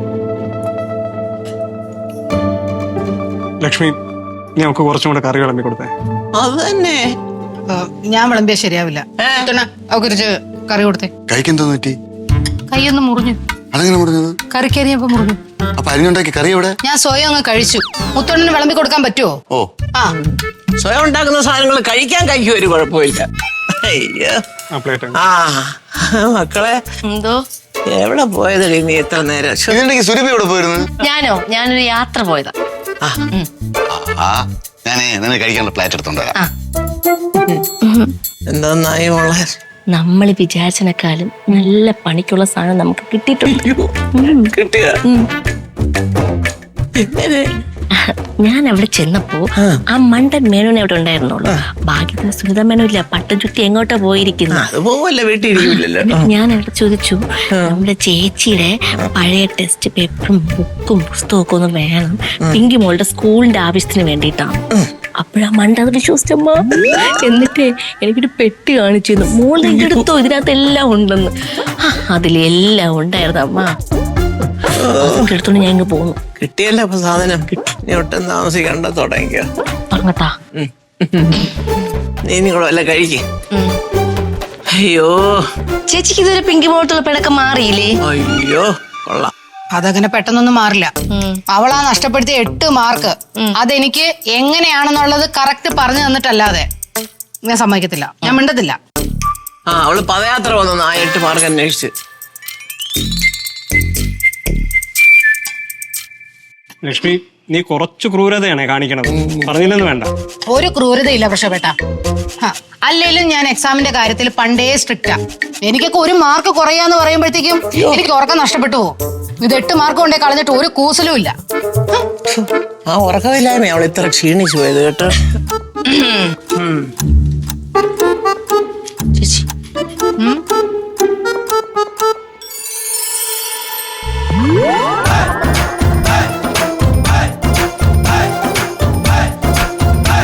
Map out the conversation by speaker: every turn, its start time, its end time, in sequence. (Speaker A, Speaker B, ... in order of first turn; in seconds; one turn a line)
Speaker A: 3.6-4.0
Speaker A: 4.6-5.9
Speaker B: 6.4-7.1
Speaker C: 7.7-11.1
Speaker B: 9.2-9.5
Speaker D: 11.3-12.0
Speaker C: 12.7-13.4
Speaker D: 13.7-14.4
Speaker C: 14.5-15.4
Speaker D: 15.8-16.8
Speaker C: 16.8-19.4
Speaker B: 20.2-23.3
Speaker B: 23.8-24.4
Speaker A: 24.7-25.2
Speaker B: 25.1-26.8
Speaker E: 27.1-27.4
Speaker B: 27.9-29.8
Speaker D: 29.7-30.9
Speaker E: 31.0-32.5
Speaker D: 33.9-36.4
Speaker E: 37.8-38.1
Speaker B: 38.5-39.4
Speaker E: 39.9-44.5
Speaker B: 43.5-43.9
Speaker B: 44.5-44.9
Speaker B: 47.0-47.4
Speaker E: 48.0-49.4
Speaker E: 49.9-54.7
Speaker B: 54.5-56.2
Speaker E: 55.6-64.6
Speaker E: 65.2-73.7
Speaker B: 69.6-70.0
Speaker B: 74.7-75.3
Speaker E: 75.0-76.2
Speaker B: 76.4-79.5
Speaker E: 79.9-80.3
Speaker B: 80.5-81.5
Speaker B: 82.2-83.2
Speaker E: 83.5-83.8
Speaker B: 84.7-85.4
Speaker E: 85.9-88.0
Speaker B: 88.1-89.3
Speaker C: 89.7-90.9
Speaker E: 91.1-91.4
Speaker C: 91.5-96.7
Speaker C: 97.5-98.8
Speaker B: 99.7-101.9
Speaker A: 106.8-110.1
Speaker B: 109.2-109.5
Speaker C: 110.5-111.7
Speaker C: 112.4-121.3
Speaker B: 122.3-125.2
Speaker B: 126.6-126.9
Speaker E: 129.2-129.4